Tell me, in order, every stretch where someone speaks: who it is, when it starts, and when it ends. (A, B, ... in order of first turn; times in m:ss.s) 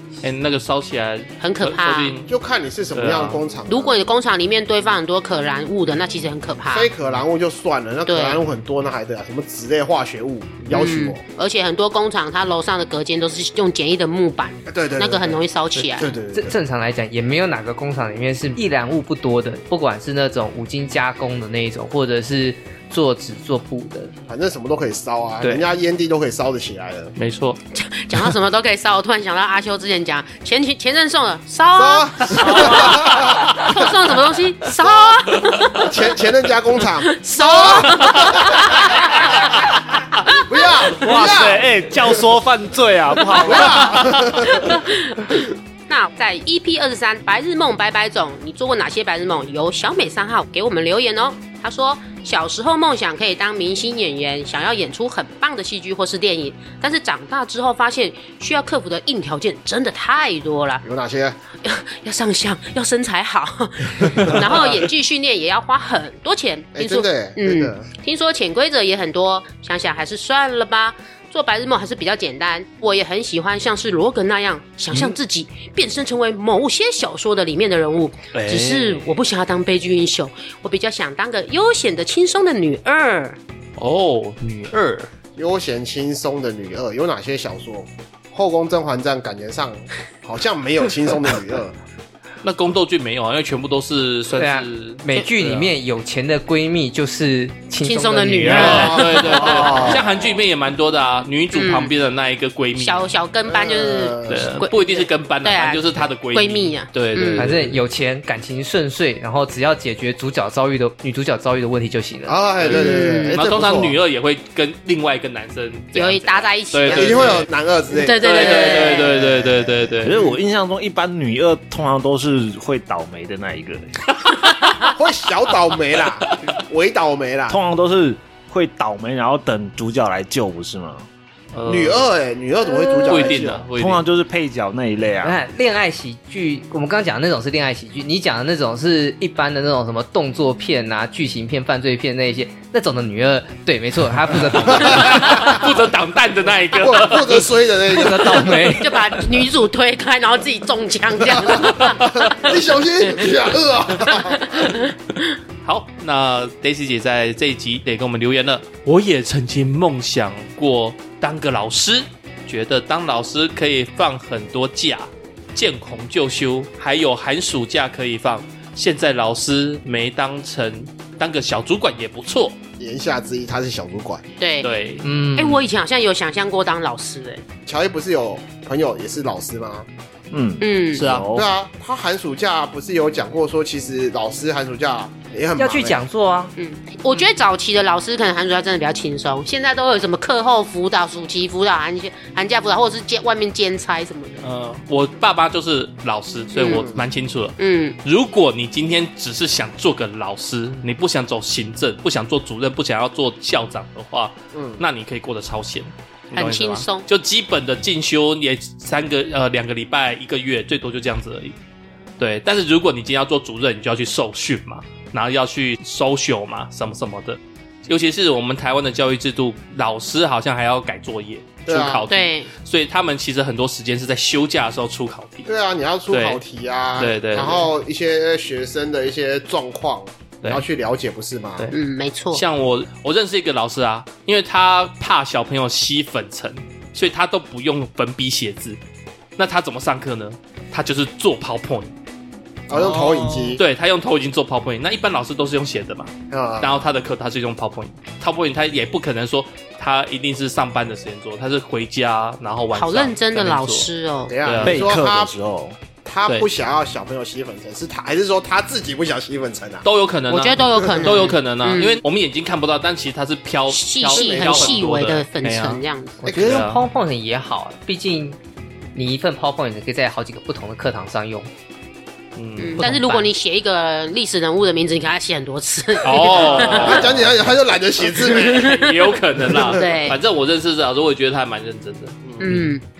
0:00.2-0:02.3 A
0:01.4-0:02.2 B
0:02.3-0:04.0 C
0:02.9-0:03.4 A
0:03.7-0:06.9 B
0:06.7-0:11.2 C
0:08.1-0:08.4 B
0:10.7-0:16.1 B
0:14.7-0:15.4 C
0:16.0-0:16.6 C
0:16.3-0:24.1 D
0:24.3-0:27.1 C
0:27.2-0:27.6 A
0:27.7-0:35.9 B
0:31.7-0:33.9 C
0:32.6-0:32.9 A
0:34.8-0:35.2 C
0:35.7-0:39.4 C
0:37.0-0:40.8 B
0:40.3-0:41.9 C
0:41.0-0:44.1 E
0:43.3-1:00.8 B
0:43.4-0:44.8 C
1:00.8-1:01.4 C
1:01.6-1:23.4 B
1:04.2-1:04.8 C
1:06.7-1:07.8 C
1:18.3-1:19.2 A
1:23.8-1:25.1 A
1:25.4-1:31.8 C
1:32.4-1:35.7 A
1:34.4-1:39.2 D
1:37.8-1:40.0 B
1:38.4-1:43.1 A
1:38.6-1:40.0 C
1:41.5-1:41.9 B
1:42.8-1:47.5 B
1:43.4-1:44.6 C
1:44.3-1:47.8 A
1:47.4-1:52.4 D
1:52.2-1:54.0 C
1:52.6-1:57.5 A
1:52.7-1:53.4 B
1:55.9-1:59.2 B
1:56.9-2:00.0 C
1:58.2-2:00.3 A
2:00.0-2:03.9 E
2:05.0-2:07.6 C
2:07.5-2:11.0 E
2:11.5-2:12.1 A
2:11.6-2:13.7 C
2:12.9-2:14.0 A
2:13.7-2:15.4 E
2:15.2-2:25.4 D
2:24.7-2:25.6 C
2:24.8-2:27.5 A
2:26.7-2:28.5 C
2:27.9-2:29.2 D
2:28.6-2:32.3 B
2:31.3-2:34.6 C
2:34.1-2:35.0 B
2:35.6-2:52.6 A
2:52.8-2:54.2 C
2:54.4-2:54.7 B
2:54.6-2:55.0 A
2:55.0-2:55.6 D
2:55.4-2:57.4 B
2:57.6-2:59.9 C
3:00.3-3:01.5 E
3:00.6-3:01.1 B
3:00.9-3:01.2 A
3:01.3-3:06.0 C
3:05.6-3:06.5 D
3:06.6-3:14.4 B
3:14.4-3:31.5 A
3:16.5-3:16.9 B
3:16.6-3:17.1 C
3:17.6-3:18.0 B
3:24.5-3:24.8 C
3:26.3-3:27.0 B
3:32.2-3:45.5 A
3:41.7-3:42.0 C
3:42.1-3:42.5 B
3:45.4-3:51.7 C
3:46.1-3:46.4 A
3:47.0-3:47.7 A
3:51.7-3:52.4 B
3:52.3-3:58.8 A
3:59.4-4:01.9 A
4:02.7-4:03.6 C
4:02.7-4:13.9 A
4:06.3-4:06.8 C
4:12.7-4:14.4 B
4:14.3-4:15.3 C
4:14.4-4:14.8 A
4:14.6-4:15.8 E
4:16.0-4:19.8 C
4:19.8-4:26.8 A
4:20.3-4:22.0 B
4:20.8-4:21.2 C
4:23.7-4:26.2 B
4:24.1-4:24.9 C
4:26.2-4:28.4 D
4:26.2-4:26.6 C
4:28.9-4:31.5 D
4:32.4-4:32.8 A
4:32.6-4:37.2 B
4:32.8-4:33.3 D
4:36.0-4:37.3 A
4:36.4-4:38.8 C
4:38.1-4:40.2 B
4:38.4-4:42.7 A
4:39.5-4:39.8 C
4:42.2-4:42.5 C
4:42.4-4:42.8 B